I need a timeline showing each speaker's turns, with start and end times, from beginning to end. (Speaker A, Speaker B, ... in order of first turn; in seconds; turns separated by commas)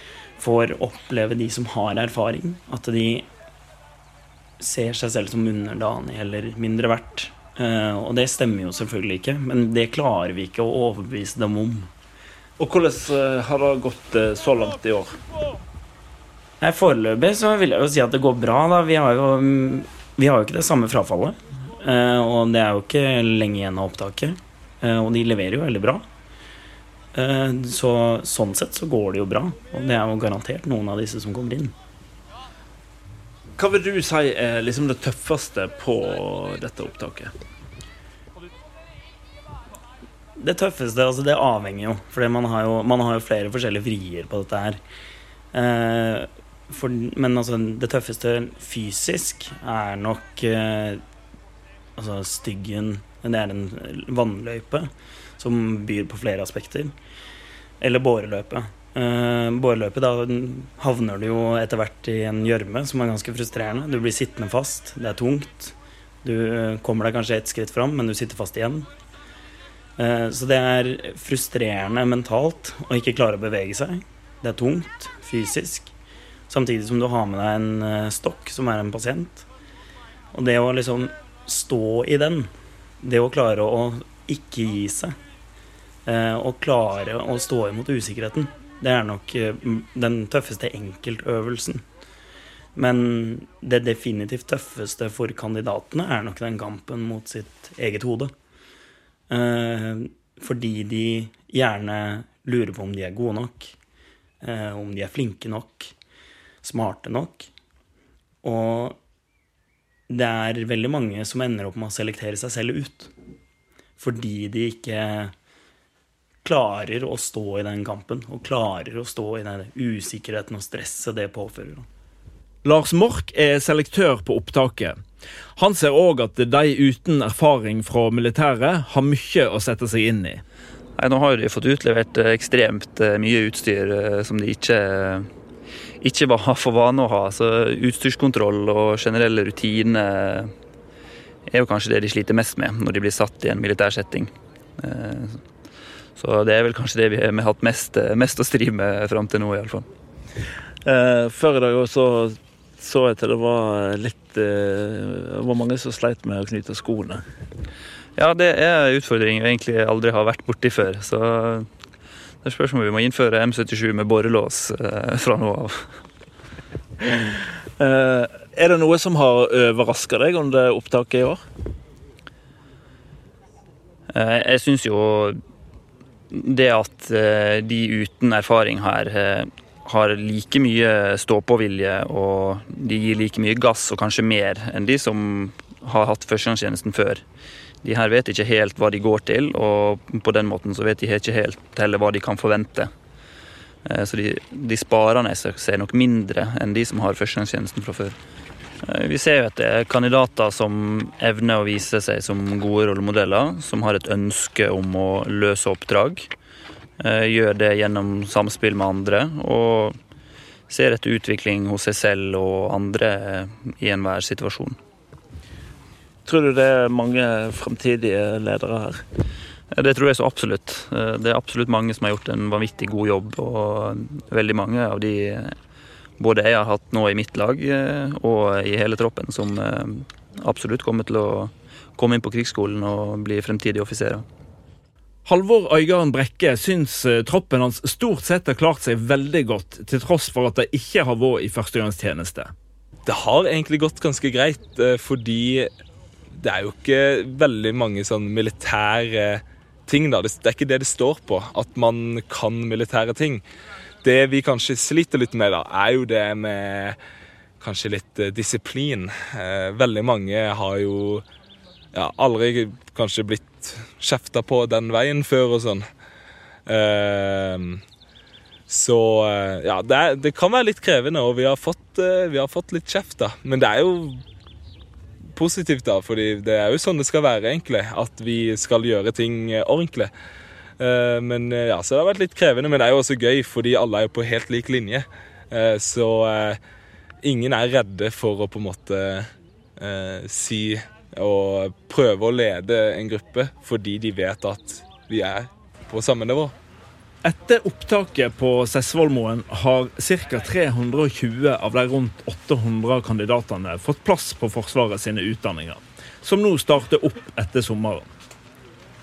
Speaker A: 0.4-3.3, Speaker A: 4.6-11.9, Speaker B: 12.6-15.2, Speaker A: 16.6-26.1, Speaker A: 27.1-31.7, Speaker B: 33.6-37.3, Speaker A: 40.4-44.8, Speaker A: 45.5-51.0, Speaker A: 52.0-56.9, Speaker A: 57.8-68.9, Speaker A: 70.0-75.9, Speaker A: 76.5-79.5, Speaker A: 80.3-82.5, Speaker A: 83.0-85.2, Speaker A: 86.1-91.8, Speaker A: 92.8-98.3, Speaker A: 99.3-103.7, Speaker A: 104.4-105.9, Speaker A: 106.6-107.5, Speaker A: 108.4-109.0, Speaker A: 110.1-113.1, Speaker A: 114.0-115.3, Speaker A: 116.4-121.9, Speaker B: 122.6-125.0, Speaker B: 125.6-130.4, Speaker C: 131.0-135.3, Speaker C: 136.0-140.5, Speaker C: 141.5-145.4, Speaker C: 146.2-149.9, Speaker B: 150.8-157.2, Speaker C: 158.2-161.7, Speaker C: 162.4-165.9, Speaker B: 167.8-171.4, Speaker C: 174.1-175.4, Speaker C: 176.3-187.2, Speaker C: 187.8-192.9, Speaker C: 193.9-198.2, Speaker C: 198.8-206.3, Speaker C: 207.0-210.0, Speaker C: 210.7-214.8, Speaker B: 216.3-219.0, Speaker C: 219.7-225.6, Speaker C: 226.2-234.2, Speaker B: 235.3-242.5, Speaker D: 243.1-245.7, Speaker D: 246.4-253.4, Speaker D: 254.0-257.0, Speaker D: 257.6-261.2, Speaker D: 261.9-265.8, Speaker D: 266.7-267.8, Speaker D: 268.7-274.2, Speaker D: 275.4-280.1, Speaker D: 280.8-286.6, Speaker D: 287.2-296.5, Speaker B: 297.2-308.1